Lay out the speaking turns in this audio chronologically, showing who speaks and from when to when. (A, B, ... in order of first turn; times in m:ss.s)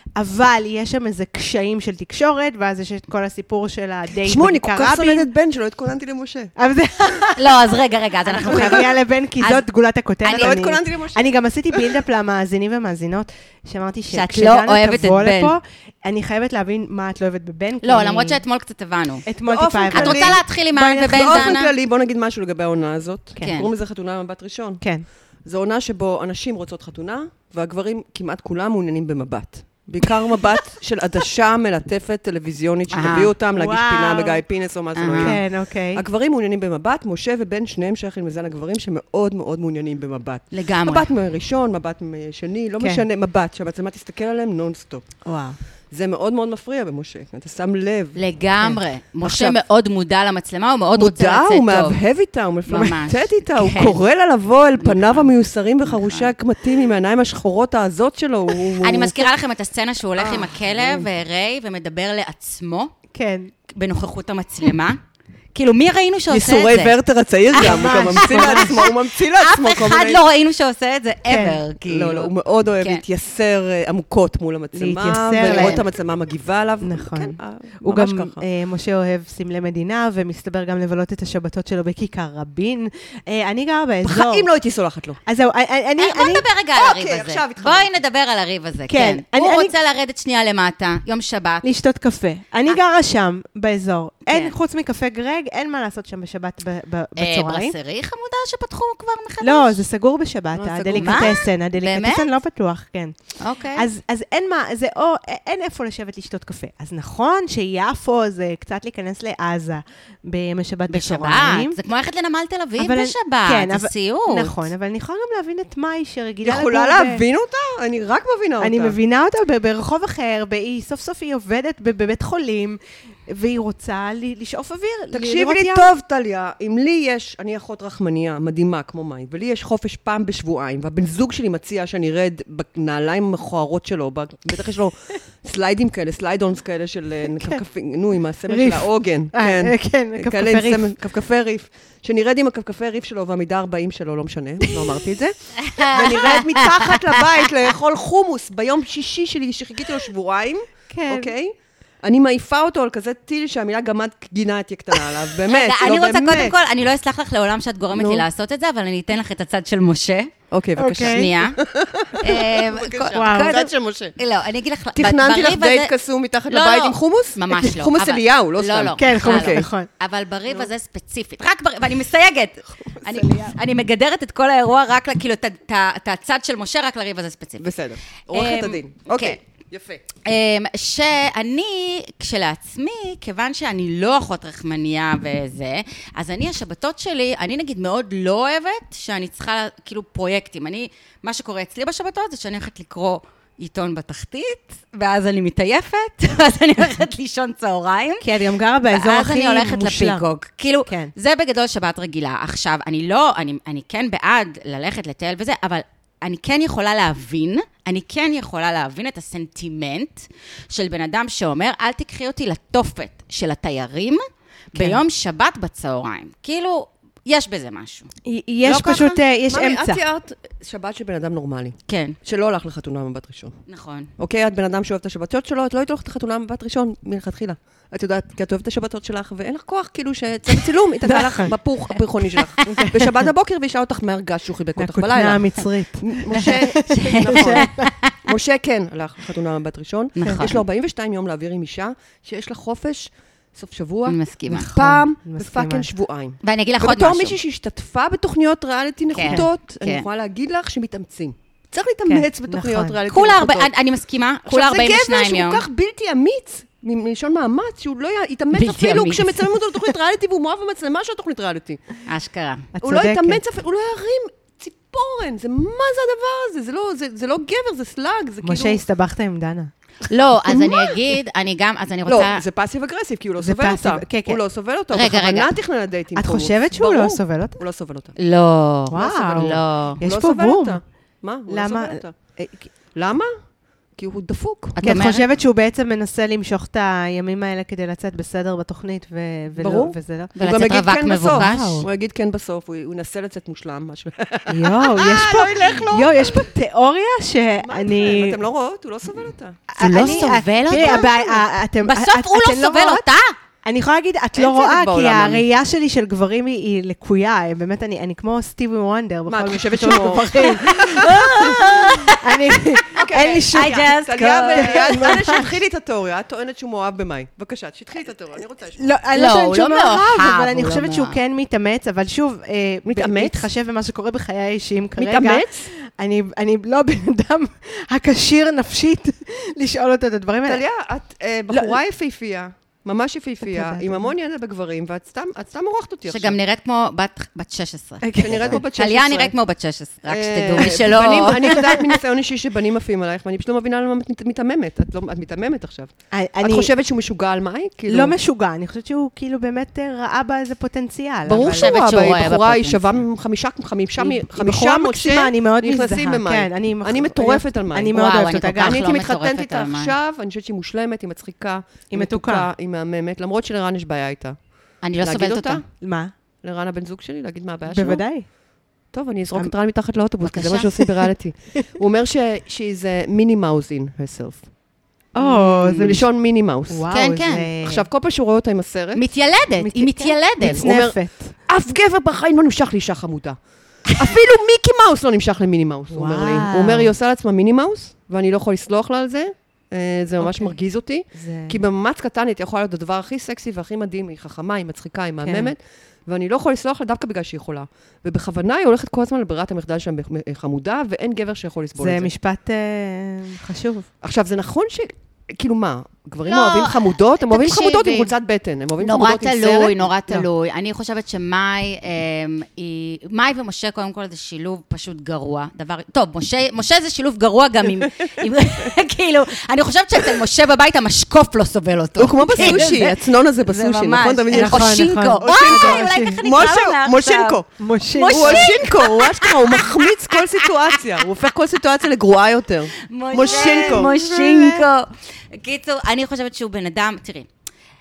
0:00.2-0:05.3 A
0:04.2-0:06.5 B
0:06.6-0:07.5 A
0:07.4-0:08.9 C
0:08.4-0:18.4 A
0:08.4-0:08.9 B
0:10.2-0:10.6 C
0:10.3-0:12.0 B
0:14.1-0:15.6 C
0:17.8-0:19.2 C
0:19.3-0:21.6 A
0:19.5-0:20.4 B
0:19.9-0:21.7 C
0:21.1-0:24.8 B
0:23.4-0:23.7 C
0:24.8-0:25.1 A
0:25.4-0:45.2 B
0:32.9-0:33.3 C
0:33.5-0:34.4 A
0:35.0-0:35.4 C
0:35.1-0:36.0 A
0:40.5-0:41.1 C
0:45.2-0:45.6 A
0:45.9-0:48.2 B
0:48.2-0:52.0 C
0:49.2-0:49.6 B
0:51.0-0:59.2 B
0:52.7-0:54.0 C
0:54.8-0:55.3 C
0:55.8-0:56.3 C
0:58.8-1:02.9 C
1:00.2-1:01.1 B
1:03.1-1:03.5 A
1:03.7-1:05.0 C
1:05.5-1:07.0 C
1:06.3-1:10.2 B
1:07.5-1:13.0 C
1:07.6-1:08.8 A
1:11.3-1:11.6 A
1:11.8-1:18.4 B
1:14.7-1:15.8 A
1:15.4-1:15.8 C
1:16.8-1:24.5 A
1:24.0-1:25.2 B
1:25.3-1:26.5 A
1:26.0-1:31.7 C
1:26.8-1:28.0 B
1:28.9-1:29.7 A
1:31.6-1:37.7 A
1:34.3-1:34.5 C
1:37.2-1:39.8 C
1:39.4-1:51.8 A
1:40.6-1:41.4 B
1:40.9-1:42.3 C
1:43.4-1:43.9 C
1:50.9-1:54.6 C
1:52.8-1:57.2 A
1:56.4-1:59.0 B
1:58.6-2:05.9 A
2:05.1-2:36.5 B
2:18.5-2:20.9 A
2:25.6-2:27.5 C
2:30.9-2:31.3 A
2:35.5-2:40.3 C
2:37.9-2:38.3 B
2:40.5-2:44.1 B
2:40.8-2:41.3 A
2:41.0-2:41.6 C
2:42.2-2:45.9 C
2:43.1-2:43.6 A
2:45.0-2:49.7 B
2:46.5-2:57.7 C
2:49.0-2:49.9 A
2:53.1-2:53.6 A
2:57.6-3:00.0 B
2:58.3-2:59.4 C
3:00.2-3:18.3 C
3:18.2-3:20.2 A
3:18.9-3:38.1 C
3:20.8-3:21.1 A
3:34.7-3:35.0 A
3:38.3-3:40.0 A
3:38.6-3:39.2 C
3:39.5-3:43.6 B
3:41.9-3:42.2 C
3:43.7-3:44.1 C
3:44.2-4:13.7 B
3:51.0-3:51.5 A
3:52.3-3:52.8 C
3:52.6-3:53.2 A
3:54.8-3:57.9 A
3:56.9-3:58.1 C
4:00.2-4:00.6 C
4:04.1-4:04.7 C
4:04.5-4:05.9 A
4:06.4-4:07.4 C
4:09.1-4:10.1 C
4:12.1-4:13.0 A
4:13.1-4:15.6 C
4:14.5-4:22.0 B
4:18.5-4:19.9 C
4:22.1-4:22.7 C
4:22.8-4:23.4 A
4:22.8-4:28.8 B
4:28.4-4:29.7 A
4:30.1-4:32.4 C
4:30.4-4:31.0 B
4:32.1-4:38.1 B
4:33.4-4:34.4 A
4:34.9-4:35.5 C
4:36.1-4:37.6 A
4:38.2-4:40.0 C
4:38.9-4:40.8 A
4:40.0-4:42.2 B
4:41.5-4:42.7 A
4:42.9-4:43.4 B
4:44.0-4:44.8 B
4:44.8-4:45.3 C
4:44.8-4:50.4 A
4:49.6-4:56.5 B
4:50.4-4:51.9 C
4:51.3-4:51.9 A
4:54.5-4:58.4 A
4:57.6-5:01.1 B
4:59.7-5:03.0 A
4:59.8-5:03.4 C
5:03.6-5:15.4 A
5:04.4-5:05.4 B
5:09.3-5:11.8 B
5:10.5-5:12.4 C
5:12.9-5:18.9 B
5:13.2-5:15.2 C
5:18.8-5:30.6 A
5:19.1-5:21.2 C
5:22.8-5:23.5 B
5:25.0-5:25.7 B
5:30.4-5:36.4 B
5:31.5-5:31.8 A
5:33.4-5:34.1 A
5:36.1-5:41.9 C
5:38.0-5:38.6 A
5:38.2-5:39.3 B
5:40.0-5:48.2 B
5:46.1-5:46.7 A
5:47.9-5:51.7 A
5:51.2-6:05.6 B
5:51.6-5:53.0 C
5:54.0-5:58.8 A
5:57.9-5:59.9 C
6:01.9-6:02.5 A
6:04.8-6:05.6 C
6:05.8-6:06.1 A
6:06.4-6:08.0 B
6:07.7-6:08.3 A
6:08.9-6:14.4 B
6:10.2-6:10.8 C
6:15.1-6:16.0 A
6:15.2-6:15.9 C
6:15.7-6:16.9 B
6:16.7-6:17.9 A
6:16.9-6:17.5 C
6:17.6-6:19.0 B
6:18.9-6:20.6 C
6:19.6-6:21.4 A
6:20.4-6:42.1 B
6:25.9-6:26.9 A
6:30.2-6:30.5 A
6:31.1-6:31.6 A
6:35.2-6:35.5 A
6:41.8-6:43.9 A
6:44.0-6:49.9 B
6:46.2-6:48.1 C
6:48.8-7:10.2 C
7:02.0-7:07.5 B
7:02.4-7:02.7 A
7:04.3-7:06.2 A
7:07.6-7:08.6 A
7:08.1-7:13.9 B
7:12.9-7:17.3 C
7:13.2-7:14.4 A